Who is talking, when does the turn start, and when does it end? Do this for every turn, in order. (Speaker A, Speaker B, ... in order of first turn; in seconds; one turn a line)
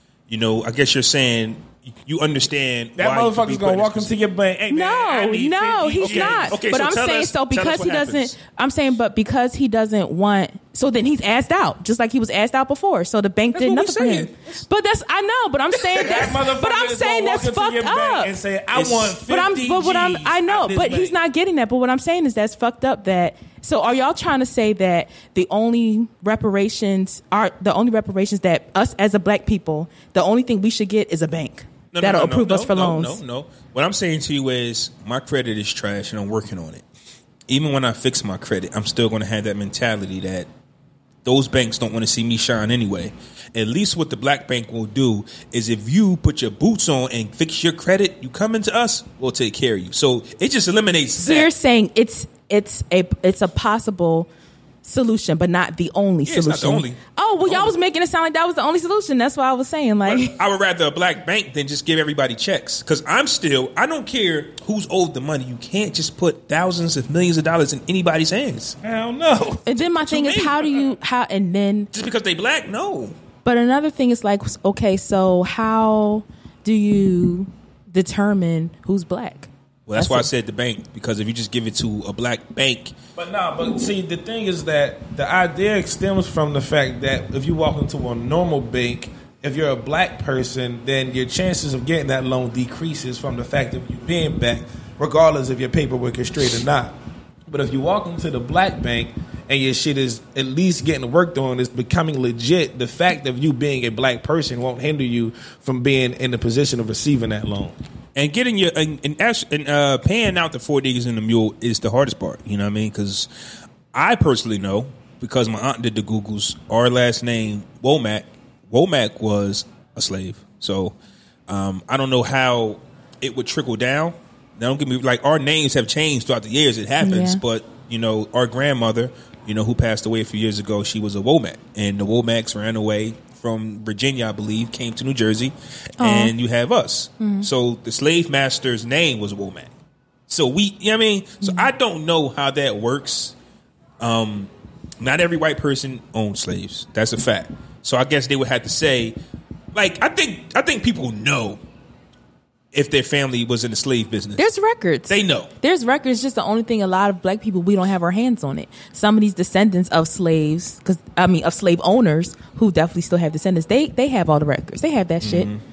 Speaker A: 0.3-4.1
Speaker B: 3.0-6.6
Speaker C: 4.7-18.3
Speaker A: 6.0-8.3
Speaker A: 13.5-14.6
Speaker B: 15.9-21.1
Speaker A: 18.7-19.4
Speaker C: 19.2-33.2
Speaker A: 31.9-36.8
Speaker A: 37.5-40.5
Speaker A: 41.2-51.5
Speaker C: 51.2-54.3
Speaker C: 54.8-60.4
Speaker A: 56.2-57.7
Speaker A: 60.0-68.8
Speaker B: 68.8-69.7
Speaker C: 69.7-71.9
Speaker A: 70.0-70.9
Speaker A: 71.9-73.2
Speaker C: 73.4-80.3
Speaker A: 79.9-83.0
Speaker B: 83.2-97.0
Speaker B: 97.5-107.8
Speaker A: 108.1-113.3
Speaker A: 113.9-121.0
Speaker A: 121.5-139.7
Speaker C: 127.0-127.4
Speaker C: 136.0-136.3
Speaker C: 137.2-137.5
Speaker A: 140.3-143.3
Speaker C: 141.4-141.7
Speaker A: 144.0-149.2
Speaker A: 149.7-151.6
Speaker A: 152.7-154.4
Speaker C: 154.4-165.5
Speaker A: 155.1-155.5
Speaker A: 165.2-165.6